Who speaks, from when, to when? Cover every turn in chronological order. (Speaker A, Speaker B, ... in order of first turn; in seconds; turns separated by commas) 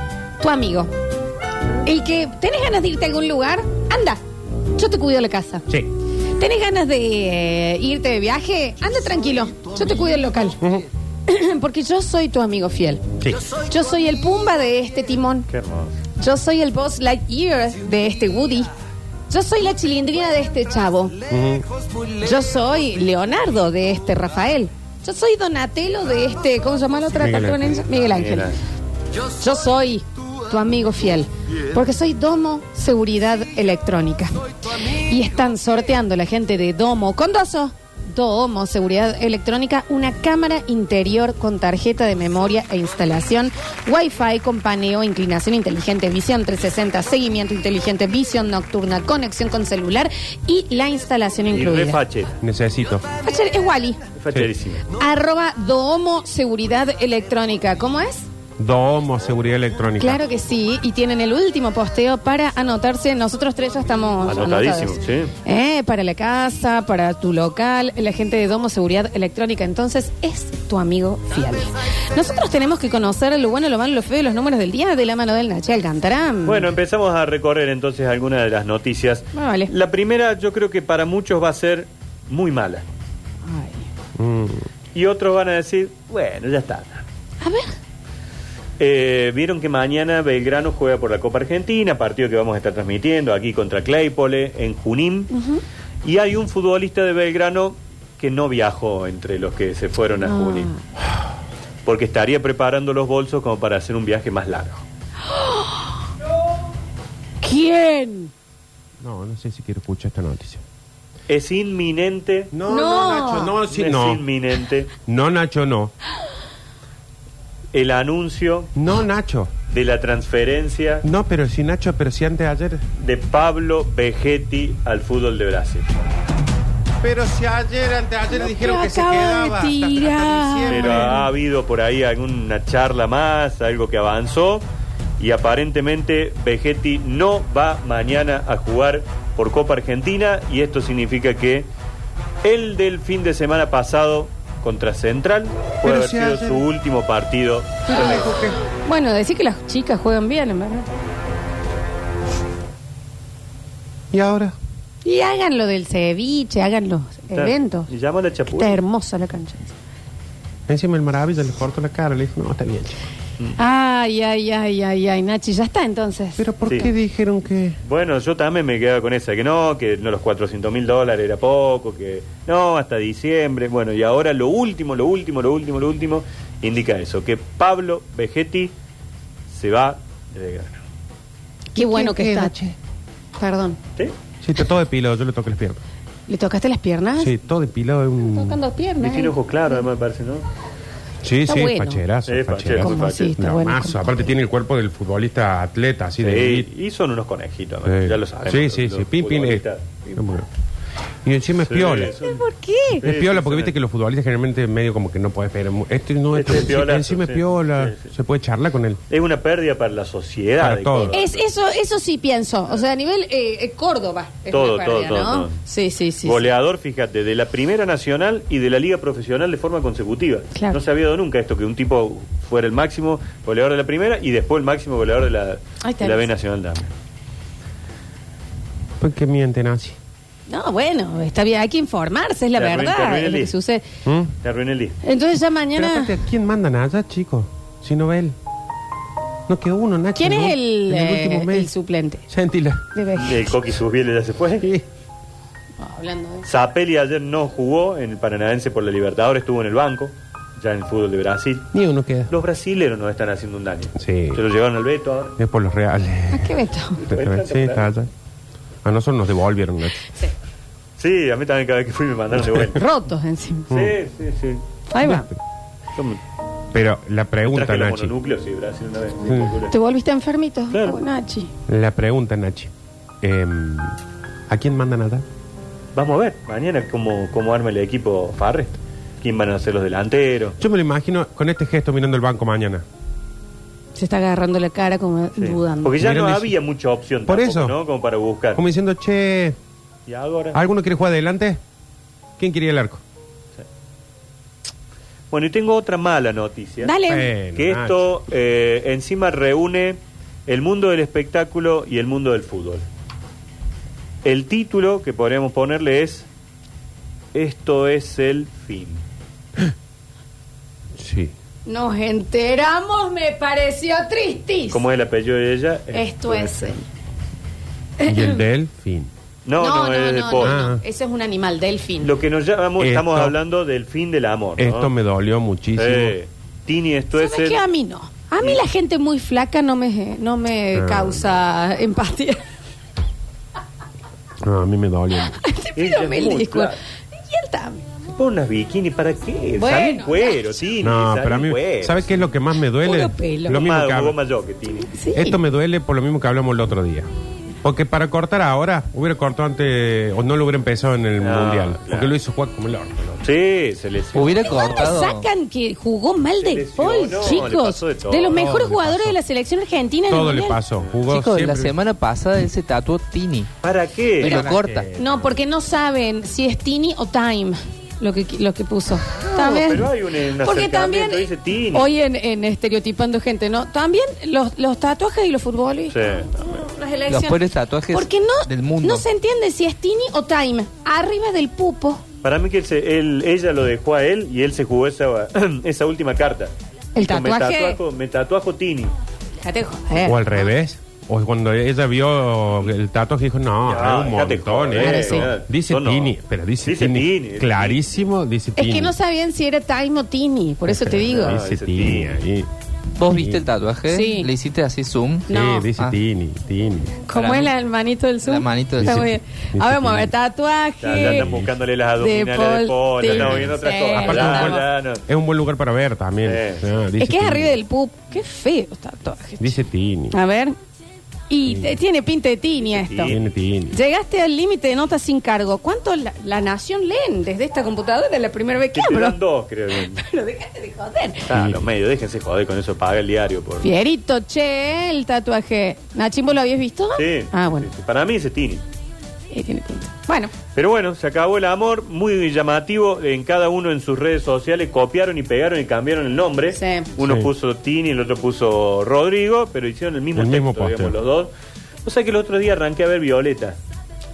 Speaker A: 0.4-0.9, Speaker A: 1.8-4.2, Speaker A: 4.8-5.7, Speaker A: 6.4-10.6, Speaker B: 10.6-10.9, Speaker A: 11.3-15.5, Speaker C: 15.5-15.9, Speaker A: 16.2-18.7, Speaker A: 19.3-21.1, Speaker B: 21.3-21.7, Speaker A: 22.2-28.6, Speaker B: 27.1-27.8, Speaker C: 28.1-28.6, Speaker A: 29.3-52.0, Speaker C: 51.5-52.3, Speaker B: 52.4-53.0, Speaker A: 53.2-54.0, Speaker C: 54.2-54.8, Speaker A: 55.0-58.3, Speaker B: 58.6-60.2, Speaker A: 60.0-76.7, Speaker C: 64.2-65.3, Speaker C: 76.4-82.9, Speaker A: 79.3-79.7, Speaker A: 83.4-83.9, Speaker B: 84.2-84.7, Speaker C: 84.9-87.0, Speaker A: 87.4-87.8, Speaker C: 88.8-95.3, Speaker A: 95.3-95.6, Speaker C: 96.0-100.7, Speaker A: 100.2-100.8, Speaker C: 101.9-104.8, Speaker A: 105.3-105.9, Speaker A: 107.4-108.3, Speaker B: 109.0-110.6, Speaker C: 111.3-112.5, Speaker B: 112.5-114.2, Speaker A: 112.7-113.6, Speaker C: 113.6-114.9, Speaker B: 115.0-115.9, Speaker C: 117.7-118.7, Speaker B: 118.8-119.5, Speaker C: 119.7-121.0, Speaker B: 121.0-122.8, Speaker C: 123.0-125.9, Speaker B: 127.0-131.2, Speaker A: 128.3-131.3, Speaker C: 130.7-134.7, Speaker C: 135.2-141.7, Speaker C: 142.4-148.3, Speaker B: 145.8-146.7, Speaker A: 147.9-150.9, Speaker B: 147.9-148.6, Speaker B: 154.1-154.6, Speaker A: 155.0-157.9, Speaker C: 157.3-158.8, Speaker A: 158.5-159.7, Speaker B: 160.7-163.0, Speaker A: 163.6-166.5, Speaker B: 166.4-167.8, Speaker C: 166.7-166.9, Speaker C: 167.8-178.7, Speaker C: 179.5-180.8, Speaker A: 181.7-182.5, Speaker B: 181.8-182.8, Speaker A: 183.3-183.8, Speaker B: 184.4-185.8, Speaker A: 186.3-187.3, Speaker B: 187.2-188.6, Speaker A: 188.2-189.3, Speaker C: 189.0-190.4, Speaker B: 191.2-196.7, Speaker A: 191.5-192.0, Speaker C: 192.3-193.3, Speaker A: 192.8-194.3, Speaker C: 196.2-200.2, Speaker B: 197.8-199.6, Speaker B: 200.2-200.5, Speaker B: 201.2-202.2, Speaker C: 201.7-202.4, Speaker A: 202.2-203.0, Speaker C: 203.0-203.8, Speaker B: 203.0-209.0, Speaker C: 206.3-208.1, Speaker C: 209.1-211.4, Speaker B: 210.6-211.2, Speaker A: 211.1-216.5, Speaker C: 214.5-215.5, Speaker C: 216.2-226.9, Speaker A: 220.5-220.8, Speaker A: 225.8-226.3, Speaker B: 229.0-230.0, Speaker A: 230.5-233.8, Speaker C: 232.6-233.5, Speaker B: 234.0-234.3, Speaker C: 234.4-235.0, Speaker A: 235.0-236.2, Speaker B: 235.8-238.3, Speaker B: 239.5-241.7, Speaker A: 240.2-242.2, Speaker B: 242.3-242.8, Speaker A: 242.9-243.5, Speaker C: 243.2-244.7, Speaker B: 244.6-244.8, Speaker A: 245.8-246.5, Speaker C: 246.4-251.7, Speaker B: 251.7-252.3, Speaker C: 252.3-255.3, Speaker B: 254.0-254.4, Speaker B: 255.4-256.5, Speaker A: 256.3-257.1, Speaker C: 257.1-257.9, Speaker B: 257.1-258.1, Speaker B: 258.8-260.1, Speaker C: 261.0-262.8, Speaker A: 262.8-263.7, Speaker C: 263.7-264.6, Speaker A: 264.9-265.3, Speaker B: 265.0-265.4, Speaker B: 266.7-268.1, Speaker C: 267.5-269.8, Speaker B: 269.3-269.5, Speaker A: 269.7-271.5, Speaker C: 270.7-271.0, Speaker B: 271.7-272.7, Speaker B: 273.2-274.0, Speaker B: 274.5-275.2, Speaker C: 275.9-280.6, Speaker B: 280.6-282.8, Speaker A: 283.9-286.0, Speaker C: 285.4-288.6, Speaker B: 286.0-286.5, Speaker B: 287.3-287.8, Speaker B: 288.6-289.6, Speaker C: 290.1-290.6, Speaker B: 290.5-291.6, Speaker B: 292.4-293.0, Speaker C: 295.3-296.9, Speaker A: 296.8-297.3, Speaker B: 297.1-298.1, Speaker C: 297.5-302.9, Speaker C: 304.2-306.3, Speaker C: 307.3-309.0, Speaker B: 311.0-311.3, Speaker A: 311.7-314.9, Speaker C: 314.7-316.8, Speaker A: 315.9-316.8, Speaker A: 318.0-318.4, Speaker B: 318.0-319.1, Speaker C: 319.4-320.7, Speaker A: 319.6-322.1, Speaker B: 320.4-320.8, Speaker C: 322.0-324.9, Speaker B: 322.8-323.4, Speaker B: 324.6-326.2, Speaker C: 325.8-327.6, Speaker A: 327.1-332.4, Speaker B: 330.7-331.3, Speaker B: 334.4-335.4, Speaker A: 335.1-337.8, Speaker C: 335.8-336.8, Speaker C: 338.2-342.1, Speaker A: 339.6-340.6, Speaker B: 340.8-344.2, Speaker A: 342.8-343.7, Speaker C: 343.5-344.9, Speaker A: 344.9-345.4, Speaker B: 345.1-347.1, Speaker B: 347.6-353.2, Speaker C: 351.2-352.2, Speaker C: 353.2-355.0, Speaker D: 354.1-355.3, Speaker A: 354.4-360.6, Speaker C: 356.4-358.4, Speaker B: 358.3-359.2, Speaker B: 360.1-361.8, Speaker D: 361.1-363.5, Speaker C: 363.6-364.5, Speaker D: 364.2-364.9, Speaker B: 364.2-365.4, Speaker A: 365.0-382.0, Speaker C: 369.2-371.9, Speaker C: 375.9-376.3, Speaker D: 377.1-379.0, Speaker C: 382.2-388.9, Speaker A: 386.9-387.8, Speaker A: 389.4-390.5, Speaker B: 390.0-398.9, Speaker C: 393.6-398.1, Speaker A: 394.8-395.3, Speaker A: 398.6-401.4, Speaker B: 400.6-402.5, Speaker C: 401.1-402.2, Speaker D: 403.0-406.0, Speaker B: 403.1-403.4, Speaker A: 403.9-404.3, Speaker A: 405.3-405.7, Speaker B: 405.3-407.1, Speaker A: 407.1-411.4, Speaker D: 407.1-407.5, Speaker D: 408.2-409.1, Speaker B: 408.8-410.1, Speaker C: 410.8-415.0, Speaker B: 410.9-411.6, Speaker A: 412.0-414.6, Speaker B: 413.0-417.6, Speaker C: 416.2-416.7, Speaker A: 417.0-419.5, Speaker B: 419.4-420.1, Speaker A: 420.1-420.6, Speaker A: 421.3-423.2, Speaker B: 421.5-421.8, Speaker C: 422.6-423.2, Speaker B: 423.1-423.8, Speaker A: 423.7-429.2, Speaker C: 428.7-430.0, Speaker A: 429.8-431.3, Speaker C: 431.2-433.7, Speaker B: 431.3-431.6, Speaker A: 433.6-437.7, Speaker C: 437.0-438.6, Speaker A: 439.3-440.3, Speaker C: 440.5-451.3, Speaker A: 446.5-446.9, Speaker B: 447.0-447.3, Speaker B: 450.1-451.0, Speaker C: 451.9-453.6